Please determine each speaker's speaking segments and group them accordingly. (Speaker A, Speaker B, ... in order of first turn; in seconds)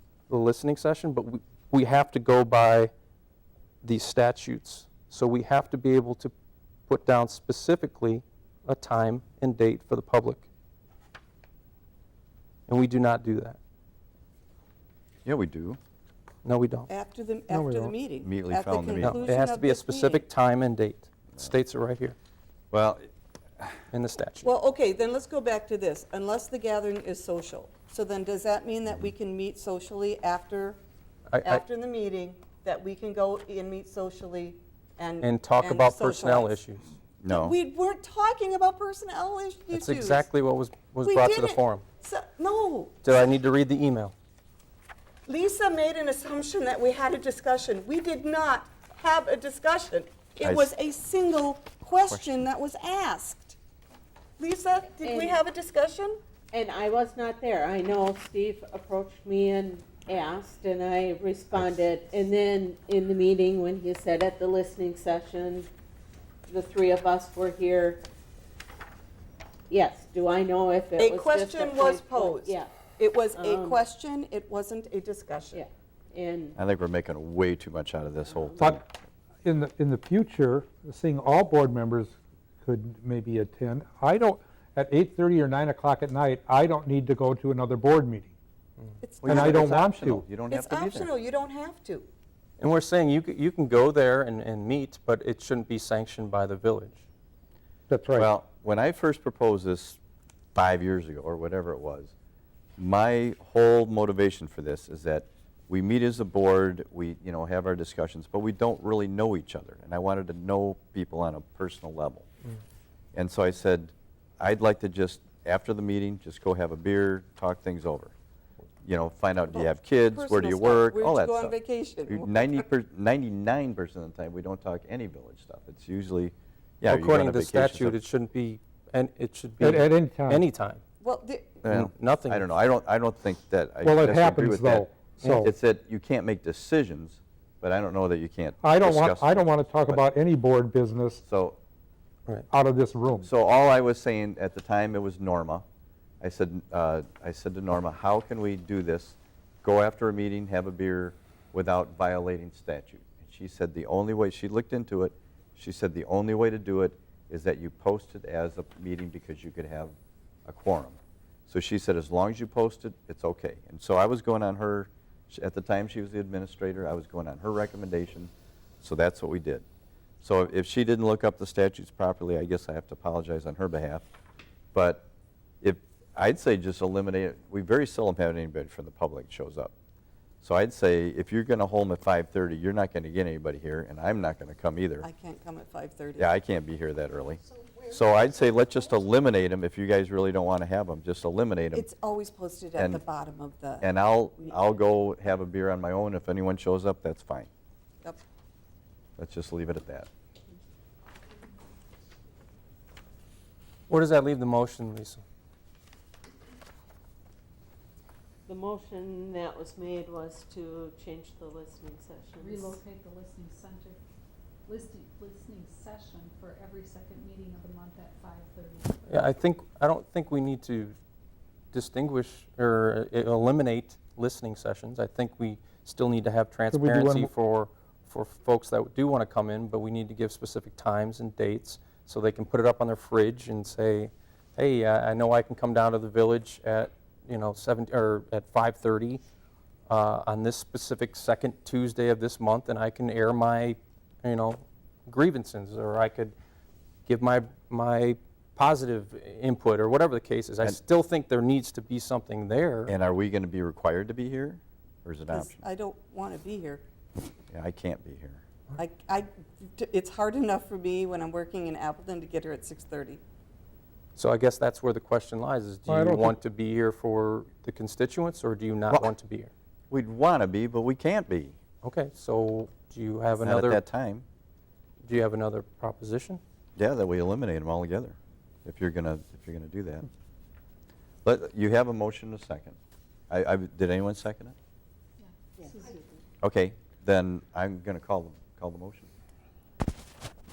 Speaker A: 0.3-2.9, 3.8-6.3, 6.9-10.5, 12.7-13.6, 16.4-16.9, 19.0-22.1, 23.9-24.5, 31.3-31.6, 35.2-36.9, 39.7-41.8, 43.0-44.1, 92.6-97.0, 126.9-130.8, 131.6-132.4, 203.9-205.2, 219.1-220.9, 221.7-239.2, 239.9-246.3, 247.1-252.9, 264.1-269.5, 271.8-273.8, 275.0-276.4
Speaker B: 15.2-15.8, 18.2-19.3, 22.7-23.8, 37.2-37.5, 50.4-50.7, 52.1-52.5, 76.5-78.8, 89.2-91.1, 98.2-100.0, 100.5-102.1, 102.8-112.3, 113.1-118.1, 118.8-121.6, 122.1-128.0, 131.6-140.0, 141.2-141.6, 143.2-145.6, 146.2-169.6, 170.2-174.1, 174.7-175.1, 175.6-179.7, 180.4-185.1, 186.2-191.9, 192.8-193.0, 193.8-197.5, 199.2-200.1, 252.9-255.6, 257.5-258.4, 269.9-271.6, 273.4-274.2, 276.8-280.1, 281.2-282.8, 283.3-284.5, 286.4-289.1
Speaker C: 16.9-20.2, 24.4-30.8, 31.4-36.6, 37.3-40.3, 41.0-43.0, 45.2-53.6, 54.4-56.2, 71.0-75.6, 89.0-89.7, 90.4-92.1, 119.5-122.6, 131.0-131.6, 185.0-186.3, 191.7-193.9, 255.3-256.8, 258.8-263.2
Speaker D: 17.5-17.9, 78.6-78.8, 79.4-88.3, 89.2-90.3, 97.9-98.3, 129.6-130.4, 133.8-135.5, 138.6-141.2, 142.5-143.3, 226.7-227.3, 265.9-266.4
Speaker E: 55.0-55.4, 56.5-65.7, 66.5-68.0, 69.7-72.7, 73.3-73.8, 75.5-76.5, 208.5-212.8, 285.6-286.2
Speaker F: 212.4-214.0, 214.6-219.1, 285.2-286.0